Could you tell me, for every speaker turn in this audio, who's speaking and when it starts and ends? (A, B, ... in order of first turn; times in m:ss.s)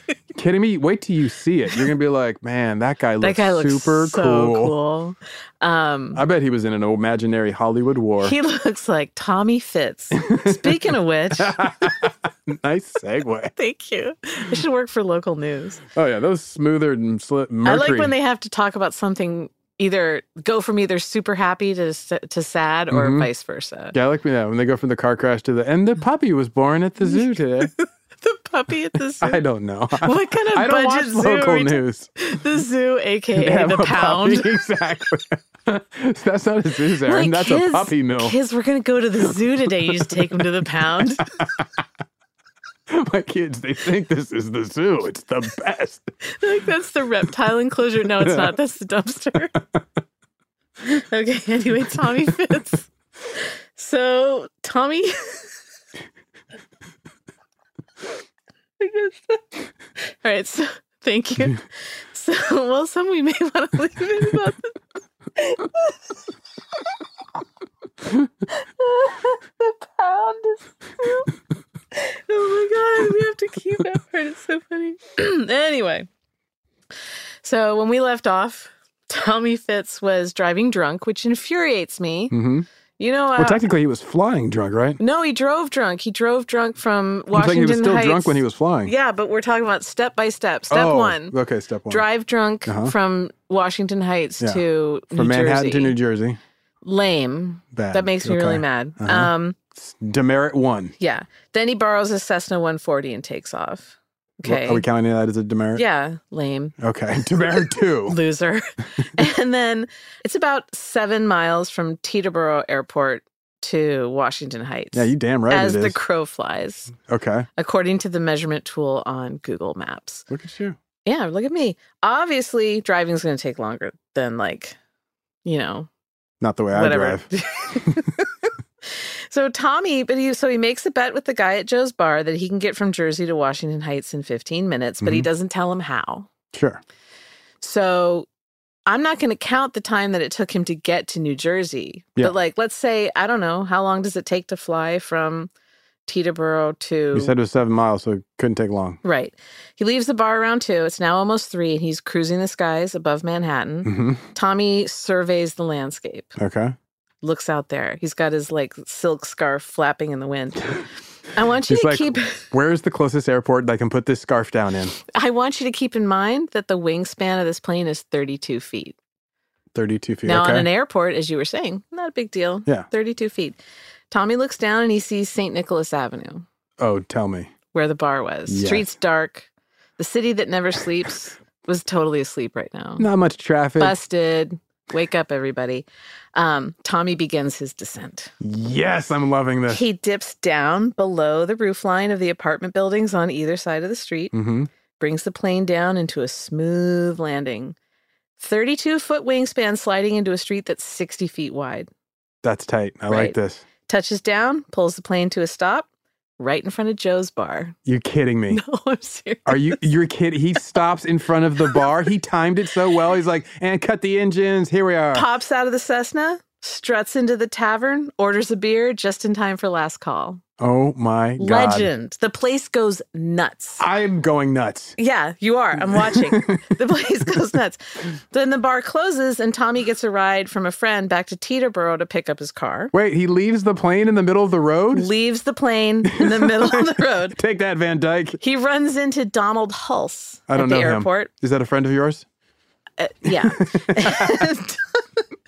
0:00.3-0:04.7 A
0:03.2-0:06.2 B
0:06.1-0:08.3 A
0:08.2-0:11.9 B
0:10.2-0:10.8 A
0:11.4-0:13.5 A
0:13.6-0:15.8 B
0:15.9-0:18.1 A
0:17.6-0:23.9 B
0:22.9-0:23.3 A
0:23.9-0:27.7 A
0:27.0-0:29.4 B
0:29.2-0:32.1 A
0:30.0-0:34.5 B
0:33.3-0:38.3 A
0:37.1-0:41.2 B
0:42.9-0:46.0 A
0:46.3-0:49.5 B
0:48.3-0:48.5 A
0:50.8-0:55.5 B
0:58.8-0:59.4 B
1:00.0-1:04.7 B
1:05.4-1:06.0 B
1:08.5-1:11.3 B
1:11.9-1:16.1 B
1:17.4-1:22.3 B
1:22.3-1:22.6 A
1:23.0-1:23.6 B
1:23.4-1:25.0 A
1:25.0-1:31.3 B
1:27.3-1:28.9 A
1:30.7-1:32.0 A
1:31.9-1:36.0 B
1:32.6-1:32.9 A
1:34.4-1:36.4 A
1:36.8-1:39.6 B
1:37.7-1:40.9 A
1:41.0-1:44.8 B
1:44.4-1:45.8 A
1:45.7-1:46.8 B
1:46.8-1:48.2 A
1:48.0-1:56.9 B
1:54.9-1:56.0 A
1:57.1-1:57.5 A
1:57.6-2:00.3 B
2:00.3-2:00.8 A
2:01.0-2:04.8 B
2:05.4-2:05.9 B
2:06.4-2:07.2 A
2:06.7-2:08.1 B
2:08.9-2:16.3 B
2:15.0-2:15.3 A
2:16.5-2:16.8 A
2:17.6-2:18.3 B
2:18.9-2:25.5 B
2:26.0-2:27.3 B
2:27.1-2:29.0 A
2:29.0-2:36.4 B
2:33.8-2:34.2 A
2:36.4-2:36.7 A
2:37.2-2:40.8 B
2:41.3-2:42.4 B
2:41.7-2:44.9 A
2:45.1-2:49.0 B
2:49.7-2:50.7 A
2:50.2-2:53.6 B
2:54.1-2:56.4 B
2:56.8-2:57.5 A
2:57.7-2:59.5 B
2:58.5-2:58.8 A
3:00.0-3:03.1 B
3:03.0-3:03.9 A
3:03.8-3:08.3 B
3:08.4-3:09.8 A
3:09.7-3:14.3 B
3:14.3-3:14.7 A
3:15.0-3:17.8 B
3:18.4-3:21.9 B
3:22.4-3:23.6 A
3:23.1-3:23.3 B
3:23.9-3:25.9 B
3:26.4-3:27.8 B
3:27.8-3:28.6 A
3:28.5-3:29.8 B
3:29.4-3:35.3 A
3:35.1-3:40.4 B
3:40.6-3:41.9 A
3:41.4-3:43.8 B
3:43.8-3:44.9 A
3:45.0-3:52.9 B
3:45.9-3:46.7 A
3:52.9-3:55.1 A
3:54.9-3:57.4 B
3:56.1-3:58.4 A
3:58.4-4:01.3 B
4:00.5-4:02.2 A
4:03.0-4:05.0 B
4:03.3-4:04.4 A